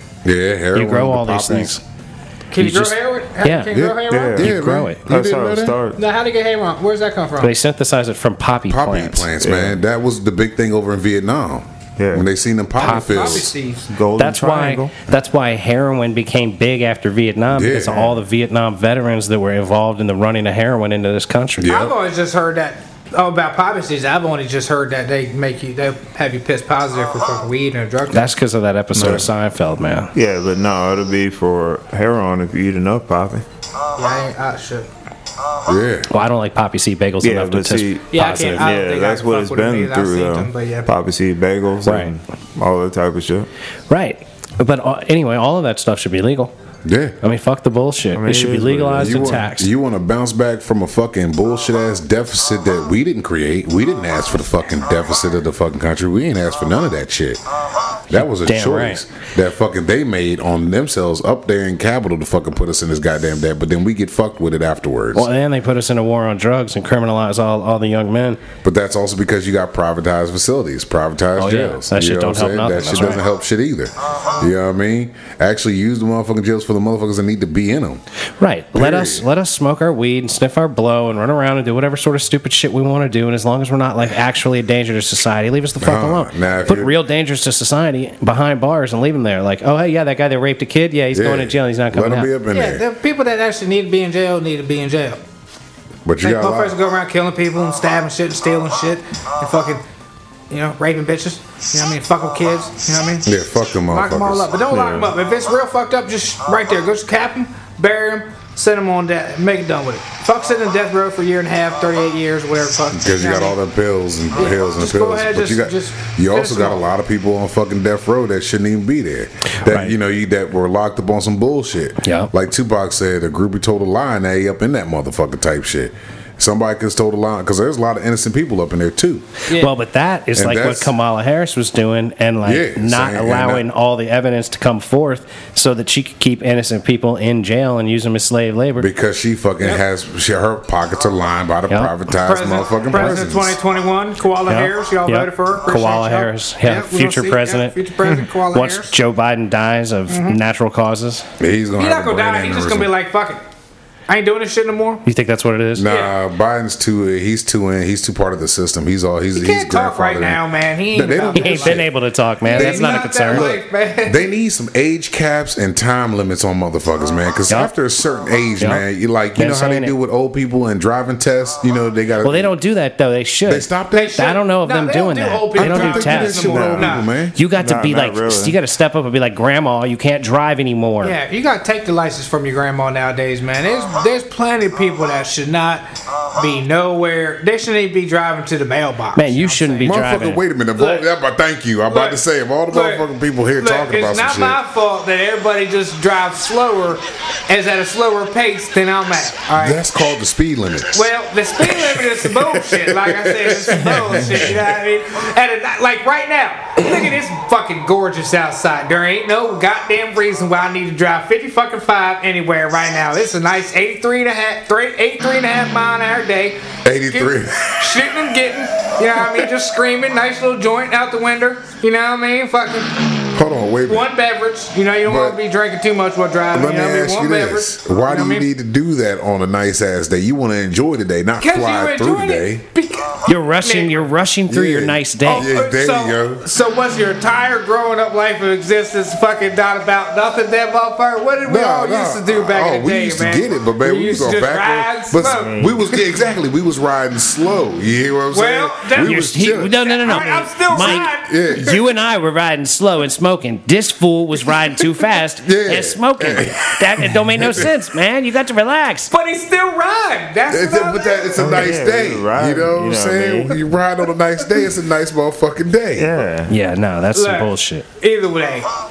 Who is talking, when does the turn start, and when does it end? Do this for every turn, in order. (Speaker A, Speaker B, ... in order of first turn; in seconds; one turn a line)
Speaker A: 0.2-1.8
Speaker B: 0.7-1.8
Speaker C: 2.5-4.4
Speaker B: 2.6-3.7
Speaker A: 3.7-5.8
Speaker D: 4.1-4.5
Speaker B: 4.4-5.0
Speaker D: 5.1-6.0
Speaker C: 6.0-7.5
Speaker B: 7.4-9.3
Speaker A: 8.7-13.5
Speaker D: 9.4-9.8
Speaker D: 12.0-12.3
Speaker C: 12.8-13.9
Speaker B: 12.8-13.5
Speaker D: 13.9-14.9
Speaker B: 14.2-21.7
Speaker A: 17.5-18.1
Speaker A: 21.6-21.9
Speaker C: 21.6-28.4
Speaker B: 28.1-30.1
Speaker D: 30.1-33.4
Speaker C: 34.0-34.9
Speaker A: 35.6-36.1
Speaker B: 36.1-38.7
Speaker D: 37.2-38.1
Speaker C: 38.1-40.9
Speaker D: 38.6-43.5
Speaker B: 41.8-42.1
Speaker B: 43.9-46.5
Speaker A: 46.8-47.1
Speaker B: 47.2-49.7
Speaker D: 48.1-49.4
Speaker A: 49.0-57.4
Speaker A: 58.1-65.3
Speaker B: 58.1-59.0
Speaker B: 65.1-68.4
Speaker A: 68.6-78.0
Speaker B: 71.3-73.2
Speaker B: 78.4-92.3
Speaker A: 78.7-79.2
Speaker A: 85.8-86.9
Speaker A: 91.1-92.8
Speaker C: 92.5-95.2
Speaker A: 96.0-96.7
Speaker C: 96.2-99.8
Speaker C: 100.5-103.3
Speaker A: 103.2-104.5
Speaker C: 103.9-113.6
Speaker D: 104.7-105.0
Speaker A: 112.9-129.2
Speaker C: 114.3-116.8
Speaker B: 119.6-119.9
Speaker B: 122.0-122.3
Speaker B: 129.5-138.9
Speaker A: 130.3-130.9
Speaker A: 132.4-133.6
Speaker A: 138.8-143.6
Speaker C: 142.2-148.9
Speaker B: 144.5-147.7
Speaker B: 148.5-151.2
Speaker C: 150.1-150.4
Speaker A: 151.4-152.9
Speaker C: 151.8-153.4
Speaker C: 154.1-155.0
Speaker B: 155.0-155.9
Speaker A: 155.8-161.9
Speaker C: 155.8-156.1
Speaker C: 159.3-161.9
Speaker B: 161.3-163.5
Speaker C: 162.4-164.2
Speaker A: 162.5-172.5
Speaker B: 169.3-169.9
Speaker B: 172.2-181.1
Speaker A: 173.4-174.2
Speaker C: 173.9-177.1
Speaker A: 175.6-177.3
Speaker D: 177.6-178.6
Speaker C: 181.0-190.0
Speaker B: 189.1-190.4
Speaker A: 189.8-194.6
Speaker C: 190.8-191.1
Speaker C: 191.9-193.0
Speaker C: 193.6-199.9
Speaker A: 199.6-201.1
Speaker C: 200.9-223.0
Speaker A: 201.6-204.6
Speaker A: 216.8-218.0
Speaker A: 223.3-224.1
Speaker C: 223.9-228.5
Speaker A: 225.0-225.4
Speaker A: 226.5-232.6
Speaker C: 231.4-234.1
Speaker B: 233.3-235.5
Speaker A: 234.5-236.4
Speaker C: 235.2-245.6
Speaker A: 241.4-251.8
Speaker D: 245.3-245.8
Speaker C: 248.3-251.6
Speaker B: 249.0-259.1
Speaker A: 255.4-257.7
Speaker C: 259.1-261.7
Speaker A: 260.5-266.1
Speaker D: 261.4-263.6
Speaker D: 265.9-266.5
Speaker B: 266.5-267.9
Speaker C: 267.1-268.7